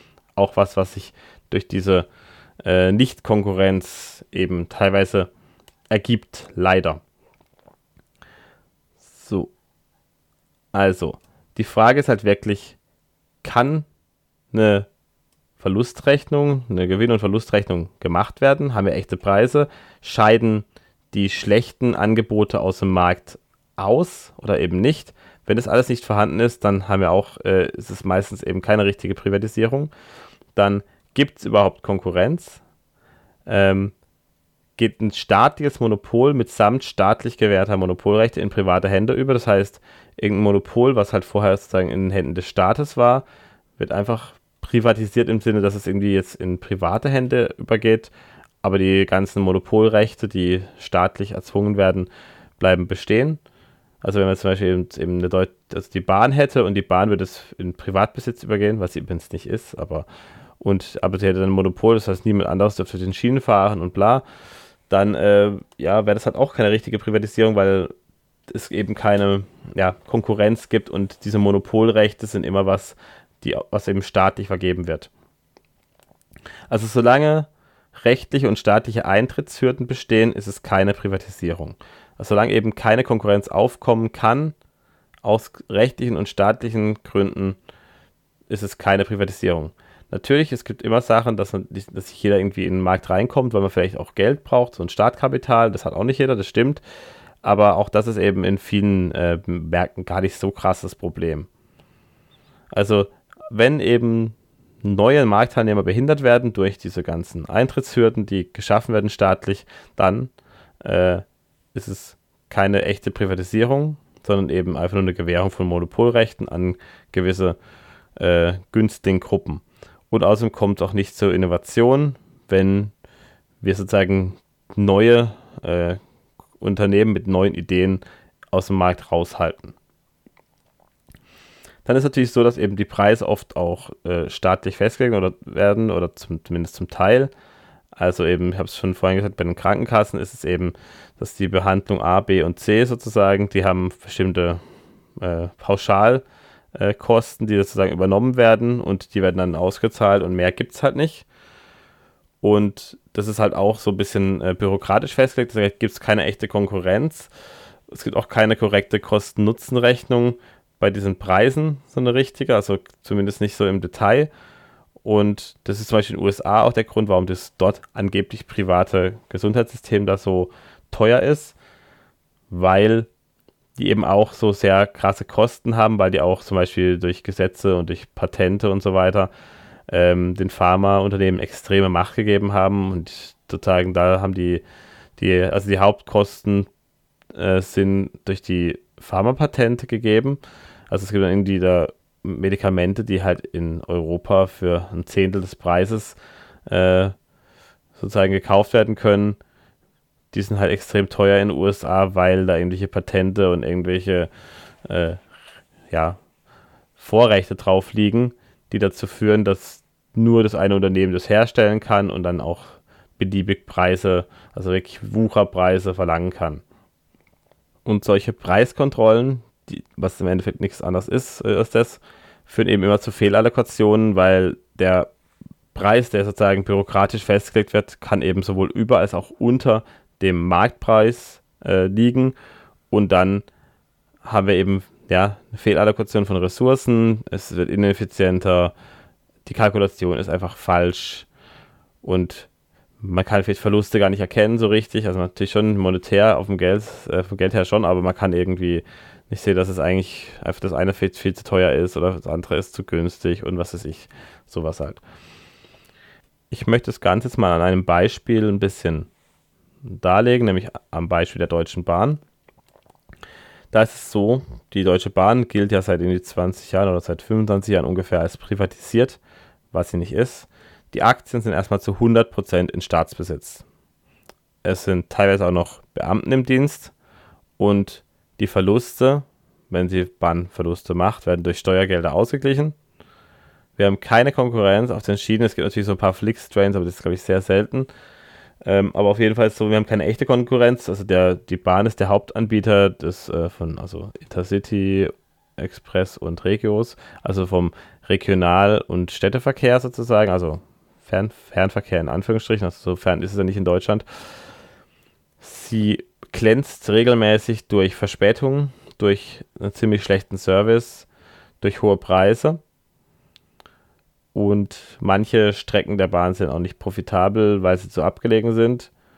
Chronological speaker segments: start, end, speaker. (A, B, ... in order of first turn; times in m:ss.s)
0:00.4-0:02.0 A
0:02.6-0:05.3 A
0:05.9-0:07.0 A
0:09.0-0:09.5 A
0:10.7-0:12.8 A
0:13.4-0:13.8 A
0:14.5-0:14.9 A
0:15.6-0:29.9 A
0:30.5-0:32.6 A
0:33.4-0:33.9 A
0:34.8-0:43.2 A
0:43.8-0:48.1 A
0:48.6-0:53.4 A
0:54.0-1:00.1 A
1:00.6-1:04.2 A
1:04.9-1:07.9 A
1:08.5-1:15.1 A
1:16.7-1:24.5 A
1:25.2-1:27.6 A
1:28.5-1:36.8 A
1:37.4-1:41.5 A
1:42.7-1:57.6 A
1:58.2-2:02.9 A
2:03.6-2:06.0 A
2:06.6-2:09.7 A
2:11.8-2:17.3 A
2:17.9-2:24.6 A
2:25.2-2:31.2 A
2:32.4-2:37.3 A
2:37.9-2:44.3 A
2:45.0-2:51.6 A
2:52.5-2:53.1 A
2:53.8-2:59.3 A
2:59.9-3:04.6 A
3:05.2-3:06.7 A
3:07.3-3:17.1 A
3:18.0-3:19.4 A
3:20.3-3:24.3 A
3:24.8-3:25.2 A
3:25.9-3:26.2 A
3:27.0-3:36.6 A
3:37.8-3:45.1 A
3:45.7-3:52.3 A
3:52.9-3:53.4 A
3:54.2-3:58.7 A
3:59.4-4:01.3 A
4:02.0-4:02.5 A
4:03.0-4:15.0 A
4:16.5-4:19.1 A
4:19.8-4:22.2 A
4:23.7-4:29.2 A
4:29.7-4:33.6 A
4:34.6-4:36.9 A
4:37.6-4:42.7 A
4:43.8-4:47.9 A
4:48.6-5:04.0 A
5:05.4-5:11.1 A
5:11.6-5:12.6 A
5:14.3-5:18.9 A